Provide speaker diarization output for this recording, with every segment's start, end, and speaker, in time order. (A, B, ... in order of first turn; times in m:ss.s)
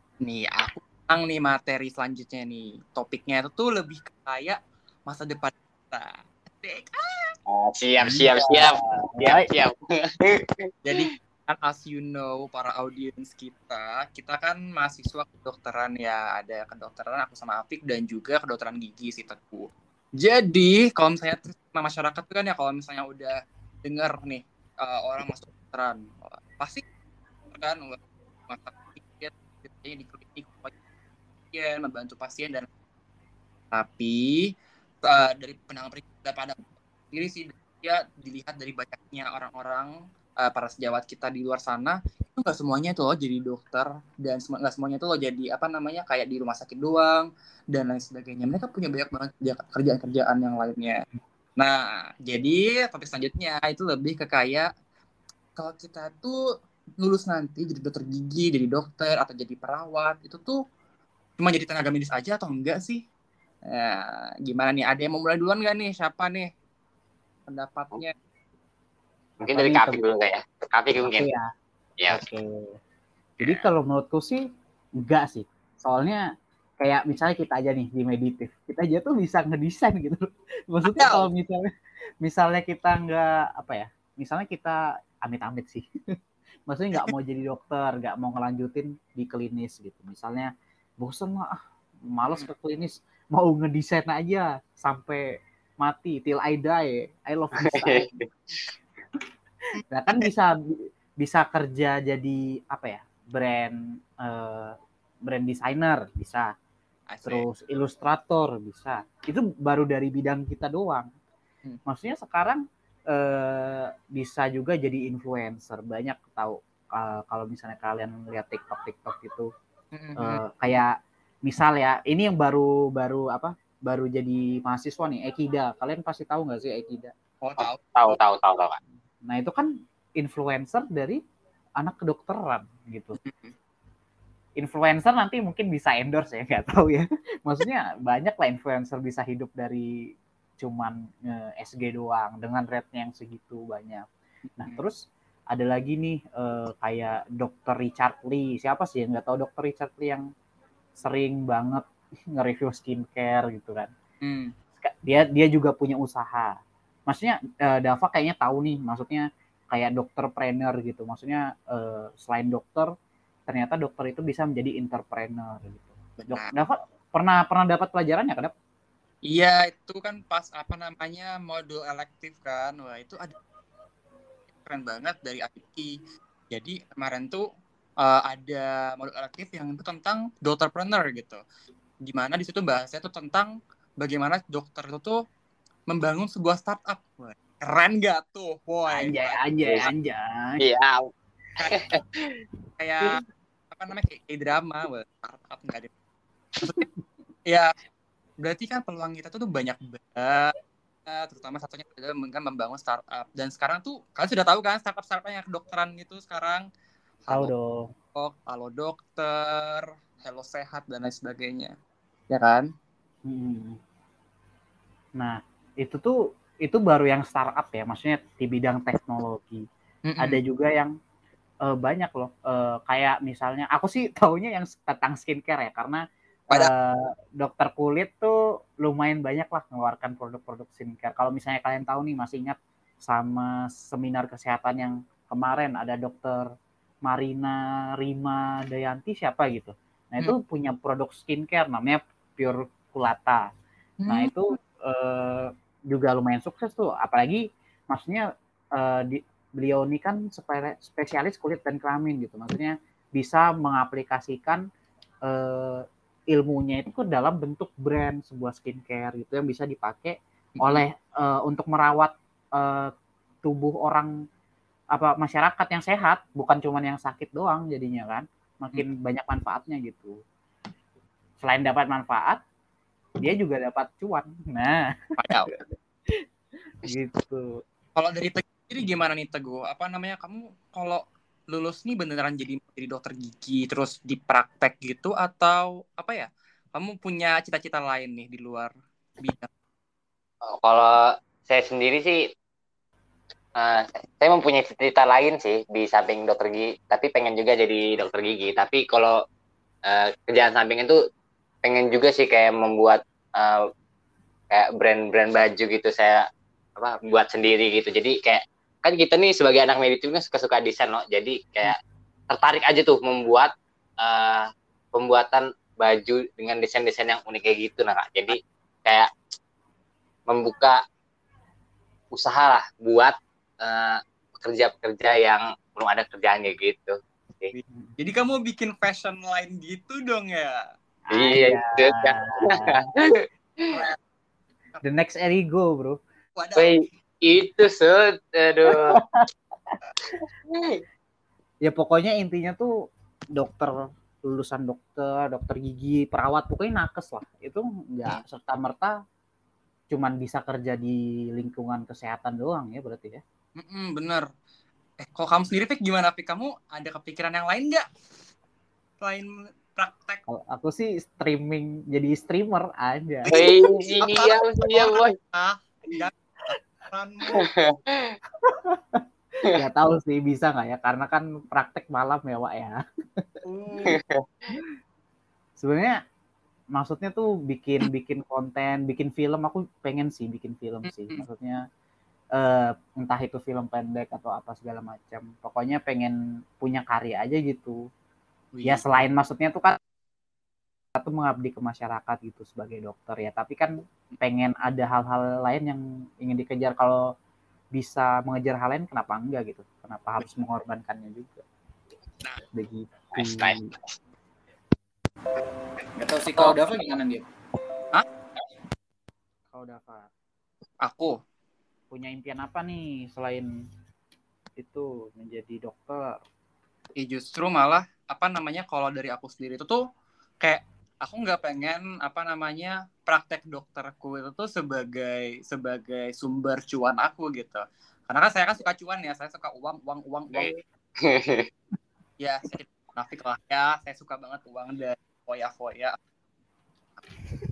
0:00.2-0:07.4 A
0:07.5-0:11.1 B
0:08.0-0:09.5 C
0:10.8-0:26.8 A
0:27.5-0:30.7 A
0:31.5-0:32.7 A
0:33.7-0:34.5 A
0:35.0-0:51.0 A
0:51.6-0:54.7 A
0:55.6-0:56.4 A
0:57.0-1:00.6 A
1:01.4-1:03.0 A
1:03.7-1:06.5 A
1:07.5-1:08.1 A
1:09.4-1:11.3 B
1:09.5-1:10.0 C
1:11.0-1:11.5 C
1:12.1-1:12.8 C
1:13.4-1:14.4 C
1:15.0-1:16.2 C
1:16.8-1:21.7 C
1:20.9-1:21.3 A
1:22.2-1:25.9 C
1:26.7-1:30.5 C
1:31.0-1:31.6 C
1:32.1-1:35.2 C
1:35.8-1:38.1 C
1:37.6-1:38.2 B
1:39.9-1:46.5 C
1:47.1-1:47.4 A
1:47.2-1:51.1 C
1:51.9-1:59.5 C
1:59.9-2:00.4 A
2:00.2-2:00.9 C
2:01.4-2:07.1 C
2:07.4-2:08.2 A
2:07.6-2:08.8 B
2:09.3-2:11.2 C
2:11.8-2:13.2 C
2:13.2-2:13.5 A
2:14.6-2:19.9 C
2:20.6-2:24.0 C
2:24.6-2:24.8 A
2:24.6-2:25.0 C
2:25.5-2:30.3 C
2:31.0-2:33.9 C
2:34.2-2:34.5 A
2:34.8-2:36.6 C
2:37.1-2:42.9 C
2:43.5-2:48.5 C
2:46.2-2:46.5 A
2:49.2-2:53.4 A
2:54.6-2:56.0 A
2:56.5-2:57.4 A
2:58.0-3:01.4 A
3:02.0-3:05.2 A
3:05.9-3:09.4 A
3:08.9-3:10.6 C
3:10.6-3:11.1 B
3:11.6-3:12.4 B
3:12.8-3:15.9 A
3:17.5-3:17.8 A
3:18.4-3:20.5 A
3:21.1-3:26.7 A
3:27.3-3:27.5 A
3:27.3-3:27.9 C
3:28.2-3:31.8 A
3:32.3-3:32.7 A
3:33.3-3:33.8 C
3:35.2-3:39.6 C
3:40.1-3:40.4 A
3:40.2-3:40.9 C
3:41.6-3:56.5 C
3:57.0-4:03.5 C
4:04.0-4:04.3 A
4:04.1-4:08.2 C
4:08.8-4:14.6 C
4:15.3-4:22.9 C
4:20.6-4:20.8 A
4:23.4-4:24.1 C
4:25.0-4:30.2 C
4:31.4-4:32.4 C
4:33.2-4:34.8 C
4:35.2-4:35.5 A
4:35.5-4:36.2 C
4:36.8-4:37.6 C
4:38.0-4:49.5 A
4:50.4-4:52.2 B
4:53.6-4:59.2 B
4:59.9-5:01.0 B
5:01.6-5:03.7 B
5:04.5-5:06.2 B
5:06.8-5:11.8 B
5:12.3-5:13.5 B
5:14.0-5:19.1 B
5:20.3-5:20.8 B
5:22.1-5:27.5 B
5:27.5-5:30.7 A
5:31.1-5:32.9 C
5:31.1-5:33.8 B
5:33.7-5:34.0 A
5:34.8-5:36.0 C
5:36.4-5:36.8 A
5:36.6-5:39.0 B
5:38.7-5:39.8 C
5:40.2-5:40.8 B
5:41.6-5:42.7 C
5:43.4-5:43.7 C
5:44.2-5:48.9 C
5:49.9-5:53.2 C
5:53.6-5:54.3 A
5:55.0-5:57.9 A
5:59.0-6:00.2 A
6:00.3-6:03.5 C
6:03.2-6:06.2 A
6:03.3-6:05.2 B
6:06.9-6:07.5 A
6:07.3-6:08.2 B
6:08.4-6:13.2 C
6:13.4-6:14.0 A
6:13.9-6:14.2 B
6:15.6-6:16.0 C
6:16.7-6:21.6 C
6:20.8-6:21.2 A
6:22.4-6:27.8 C
6:28.5-6:28.8 A
6:28.6-6:29.8 C
6:31.0-6:37.0 C
6:37.7-6:41.4 C
6:42.5-6:43.7 C
6:43.2-6:43.9 B
6:46.0-6:47.2 C
6:49.5-6:50.1 C
6:50.8-6:51.2 A
6:51.9-6:53.5 C
6:54.6-6:56.2 C
6:57.0-6:59.8 A
7:00.4-7:10.6 A
7:10.3-7:11.5 B
7:12.2-7:16.0 A